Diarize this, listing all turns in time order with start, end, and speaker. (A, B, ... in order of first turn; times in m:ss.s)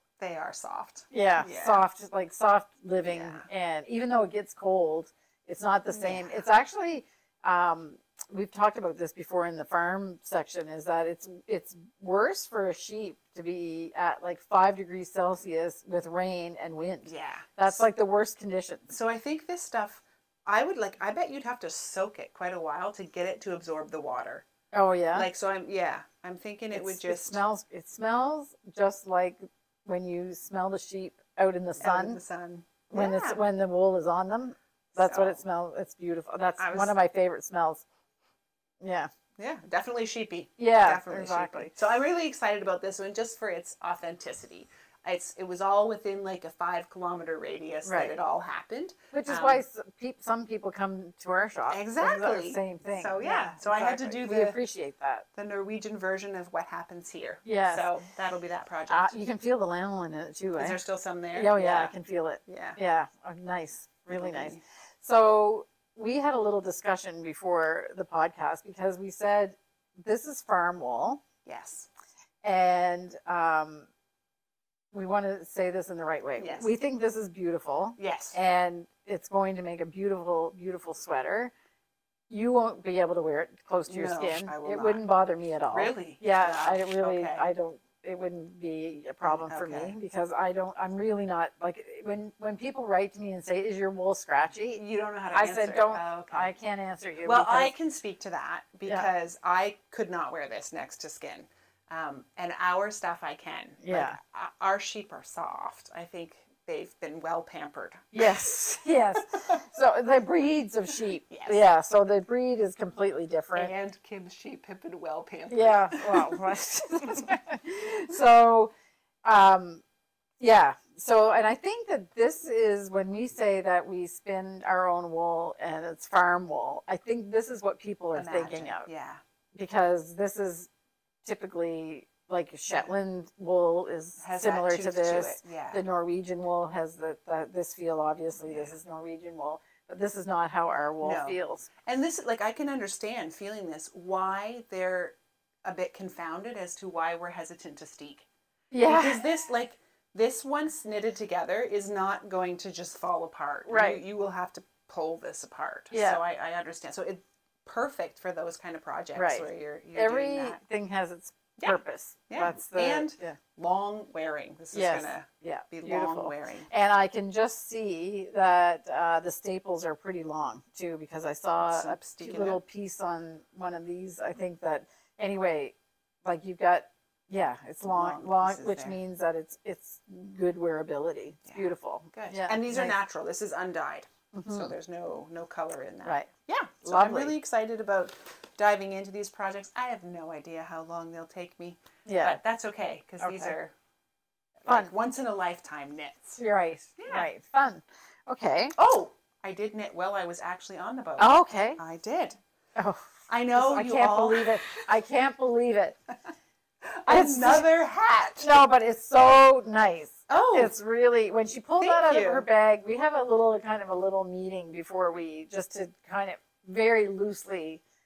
0:00.2-0:01.8 A
0:01.1-0:18.9 B
0:03.1-0:03.5 A
0:05.9-0:06.4 A
0:17.0-0:17.8 A
0:18.9-0:24.4 A
0:24.7-0:25.3 B
0:25.1-0:27.4 A
0:26.7-0:32.2 B
0:31.8-0:33.4 A
0:32.9-0:37.8 B
0:35.0-0:35.4 A
0:36.6-0:36.9 A
0:38.8-0:39.1 B
0:39.4-0:49.6 A
0:40.6-0:41.7 B
0:47.8-0:48.2 B
0:49.1-0:55.2 B
0:51.7-0:54.6 A
0:55.3-0:59.2 A
0:57.4-0:57.9 B
0:58.9-1:00.8 B
1:00.6-1:01.9 A
1:01.3-1:11.2 B
1:02.5-1:02.8 A
1:04.1-1:04.6 A
1:11.4-1:11.9 A
1:12.4-1:13.9 B
1:14.9-1:21.5 B
1:16.4-1:16.7 A
1:18.0-1:18.4 A
1:22.3-1:34.8 B
1:23.9-1:25.0 A
1:25.7-1:27.5 A
1:29.2-1:29.9 A
1:34.8-1:36.5 A
1:35.3-1:37.7 B
1:37.2-1:48.1 A
1:43.8-1:44.2 B
1:48.1-1:53.7 B
1:51.3-1:51.7 A
1:53.5-1:56.4 A
1:55.5-1:58.7 B
1:57.0-1:57.3 A
1:59.2-1:59.8 B
2:00.4-2:08.8 B
2:08.1-2:09.2 A
2:09.5-2:10.7 B
2:11.2-2:21.7 B
2:14.2-2:15.8 A
2:18.4-2:18.7 A
2:21.0-2:28.3 A
2:28.7-2:29.2 B
2:28.8-2:40.6 A
2:33.7-2:34.0 B
2:35.9-2:36.2 B
2:39.1-2:43.4 B
2:42.3-2:46.7 A
2:44.7-3:02.9 B
2:51.6-2:52.6 A
2:57.8-2:59.0 A
3:01.4-3:13.7 A
3:04.3-3:04.7 B
3:06.0-3:06.3 B
3:06.8-3:07.3 B
3:12.0-3:12.4 B
3:13.2-3:13.5 B
3:14.6-3:16.4 A
3:16.4-3:18.8 B
3:17.0-3:17.3 A
3:18.8-3:22.4 A
3:21.2-3:21.8 B
3:22.8-3:26.0 B
3:23.3-3:24.8 A
3:26.8-3:28.5 A
3:27.1-3:27.6 B
3:28.4-3:37.8 B
3:30.3-3:30.8 A
3:31.8-3:32.5 A